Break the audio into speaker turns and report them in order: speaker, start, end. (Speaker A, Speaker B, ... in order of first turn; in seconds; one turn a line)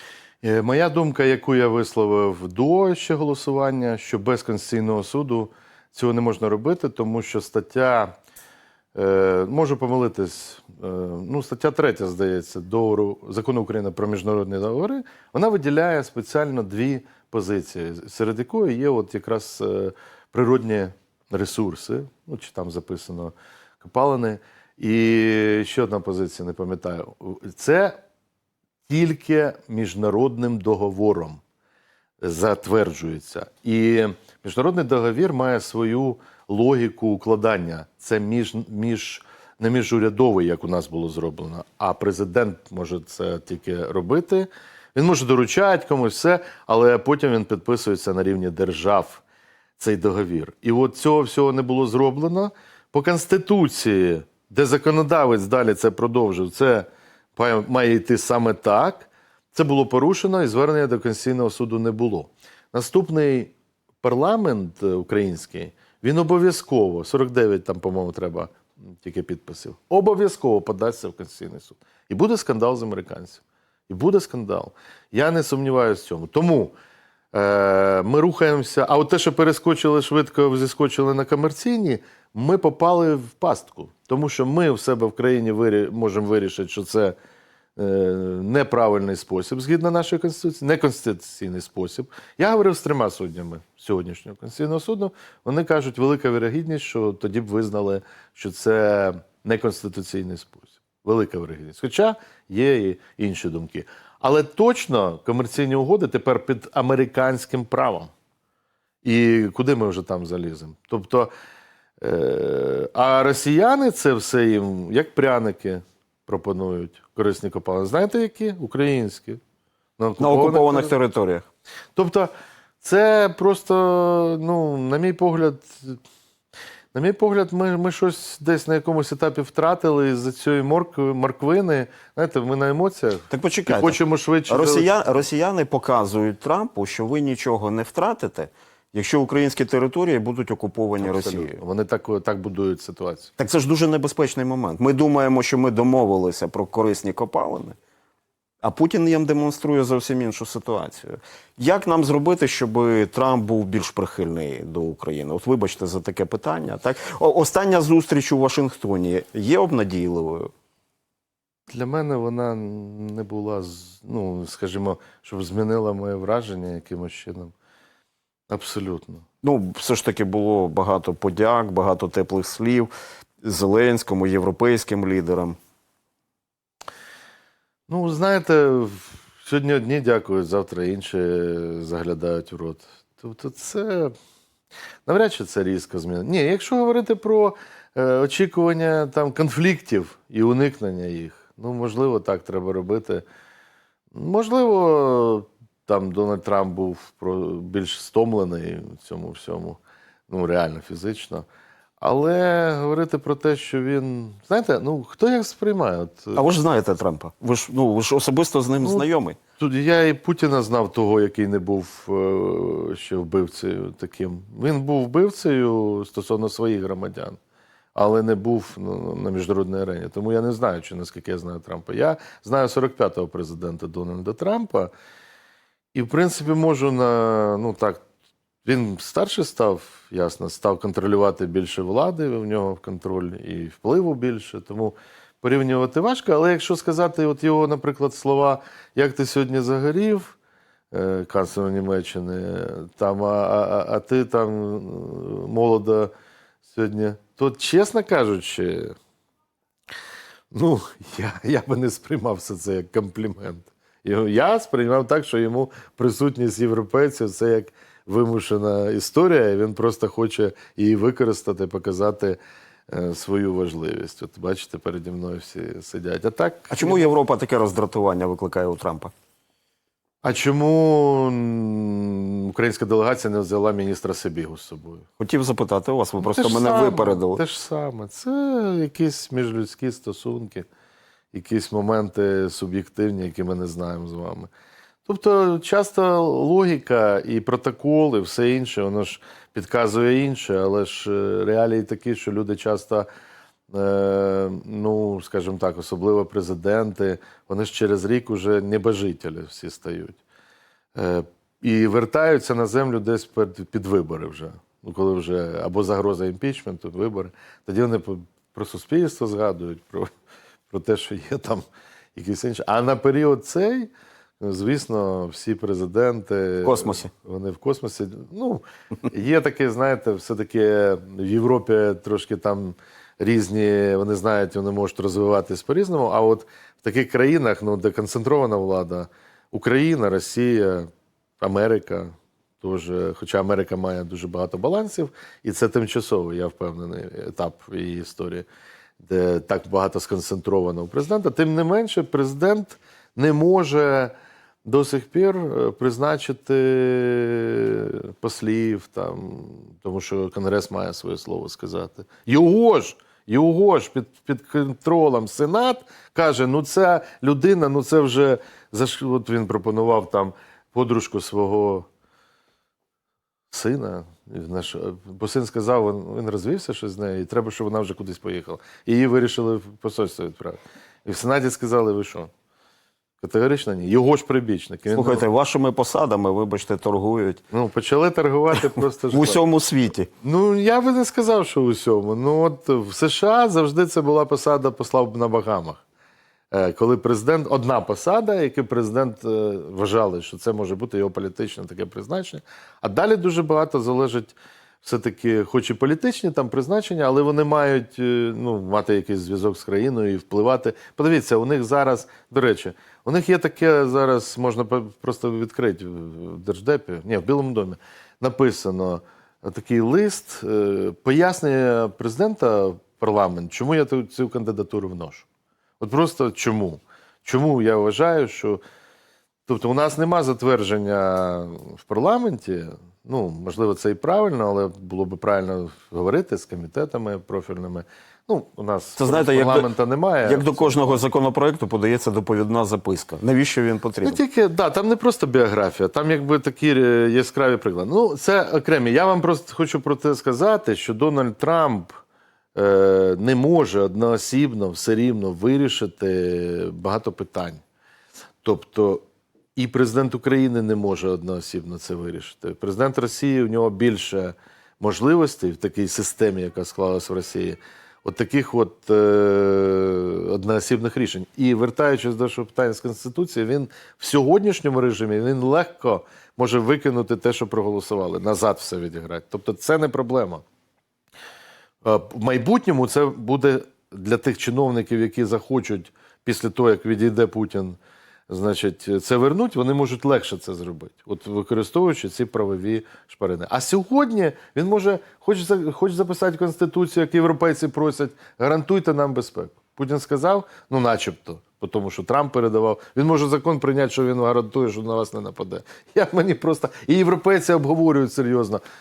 Speaker A: 0.4-8.2
Speaker A: 8.9-28.0
Speaker A: 28.9-31.4
Speaker A: 32.2-49.2
Speaker A: 49.8-76.8
Speaker A: 77.3-87.2
Speaker A: 87.8-108.1
Speaker A: 109.0-111.3
Speaker A: 112.0-119.4
Speaker A: 120.0-120.9
Speaker B: 120.2-121.5
Speaker A: 122.0-126.0
Speaker A: 126.9-134.9
Speaker B: 133.3-141.6
Speaker A: 141.0-143.3
Speaker B: 143.4-147.8
Speaker B: 148.6-160.5
Speaker A: 161.7-167.5
Speaker A: 168.5-169.2
Speaker B: 169.4-172.9
Speaker B: 173.4-175.6
Speaker A: 177.9-184.1
Speaker A: 185.1-193.2
Speaker A: 194.1-201.5
Speaker A: 202.0-206.5
Speaker B: 206.3-209.4
Speaker A: 209.6-217.4
Speaker A: 217.9-224.9
Speaker A: 225.9-228.0
Speaker A: 228.6-240.4
Speaker A: 240.9-246.1
Speaker A: 246.7-248.9
Speaker A: 250.5-267.1
Speaker B: 266.7-269.1
Speaker A: 270.2-275.1
Speaker B: 275.2-277.4
Speaker A: 276.2-280.7
Speaker A: 281.3-284.5
Speaker A: 285.1-293.1
Speaker A: 293.7-300.2
Speaker A: 300.9-310.1
Speaker A: 310.7-338.5
Speaker B: 316.6-317.1
Speaker A: 339.0-344.1
Speaker A: 344.6-361.9
Speaker A: 363.5-372.3
Speaker A: 373.2-375.2
Speaker B: 374.9-377.4
Speaker A: 377.5-379.4
Speaker B: 379.1-380.1
Speaker A: 380.2-385.8
Speaker A: 386.5-415.3
Speaker A: 415.8-418.6
Speaker A: 419.5-431.0
Speaker B: 429.0-429.7
Speaker B: 430.2-434.2
Speaker A: 434.0-441.9
Speaker A: 442.6-447.6
Speaker A: 448.4-449.0
Speaker A: 449.6-470.4
Speaker A: 471.8-477.8
Speaker A: 478.3-498.6